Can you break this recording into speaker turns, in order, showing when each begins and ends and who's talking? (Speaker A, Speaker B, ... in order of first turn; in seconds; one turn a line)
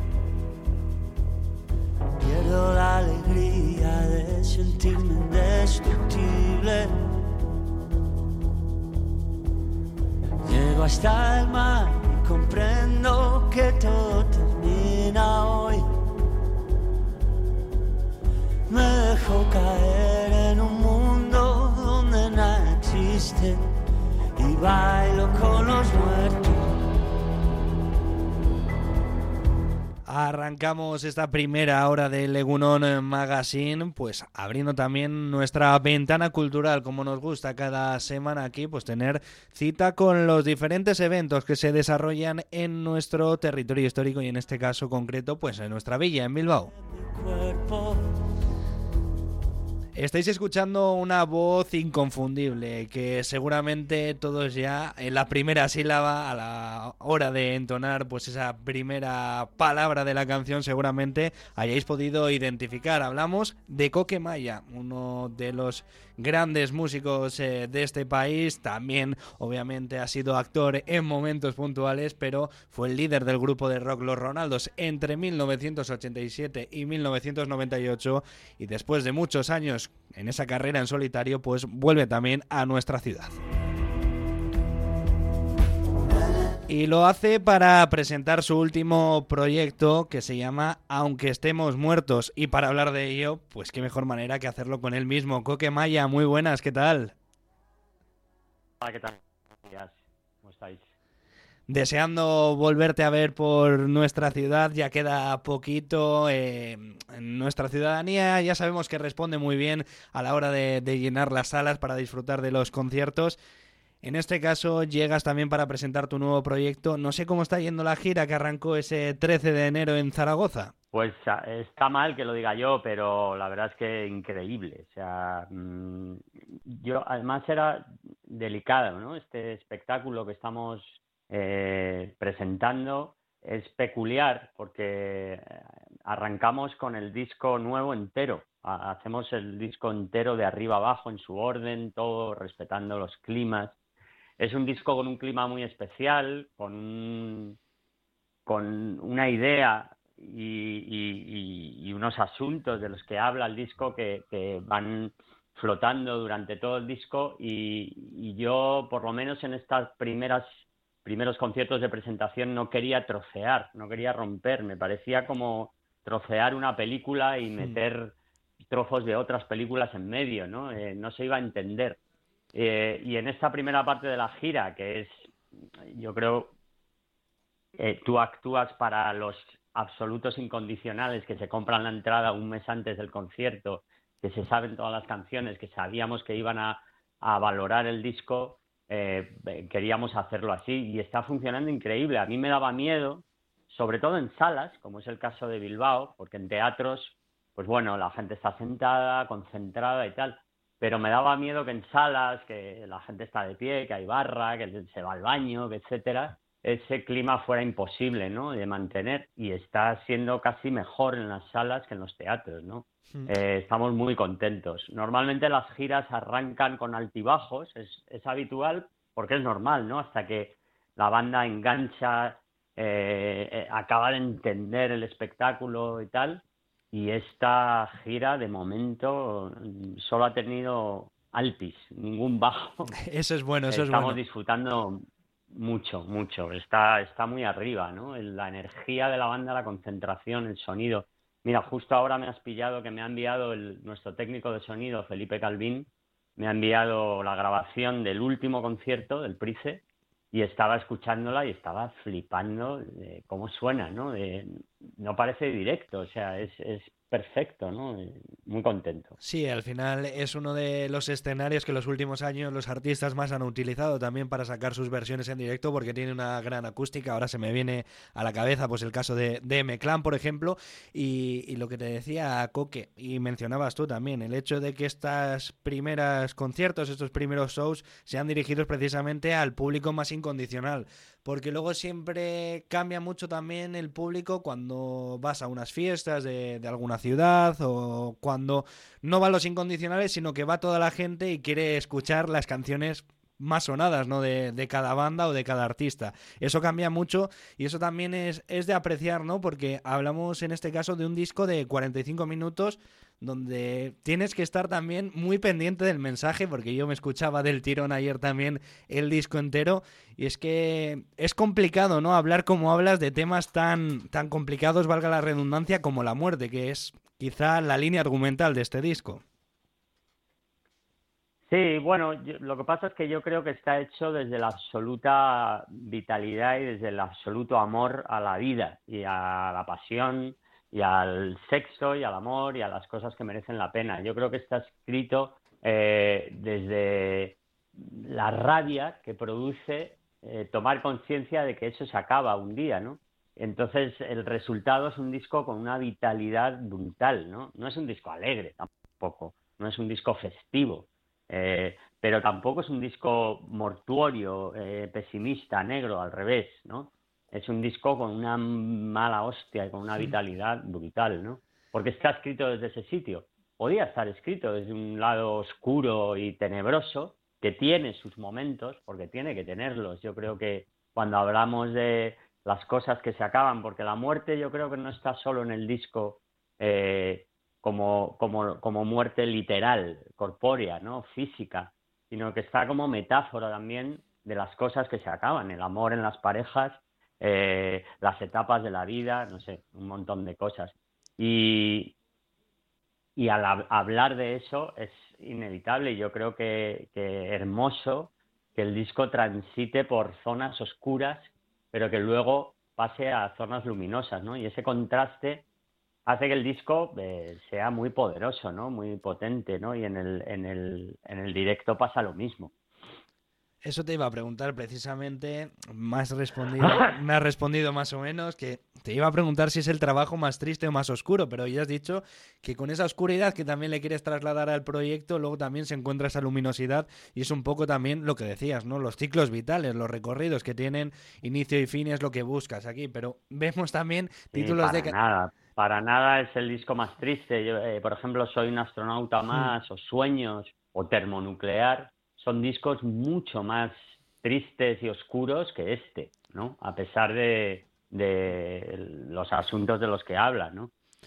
Speaker A: 2.2-4.8
Speaker B: 4.6-6.3
Speaker A: 5.5-6.8
Speaker A: 10.4-15.7
Speaker B: 12.9-13.4
Speaker A: 18.7-23.4
Speaker B: 20.9-21.5
Speaker B: 23.1-23.5
Speaker B: 24.4-25.9
Speaker A: 24.5-26.6
Speaker C: 30.1-46.7
Speaker A: 47.3-47.9
Speaker C: 49.9-83.4
Speaker C: 86.7-97.1
Speaker B: 98.8-100.9
Speaker C: 101.7-113.4
Speaker C: 114.0-120.7
Speaker B: 120.9-143.8
Speaker B: 144.4-147.6
Speaker B: 148.4-168.1
Speaker B: 168.7-172.0
Speaker B: 172.5-176.5
Speaker B: 177.8-232.9
Speaker C: 233.0-234.2
Speaker B: 233.7-259.1
Speaker C: 259.2-319.2
Speaker B: 321.5-391.9
Speaker B: 393.1-405.4
Speaker B: 406.1-412.5
Speaker C: 413.6-434.9
Speaker B: 434.3-450.7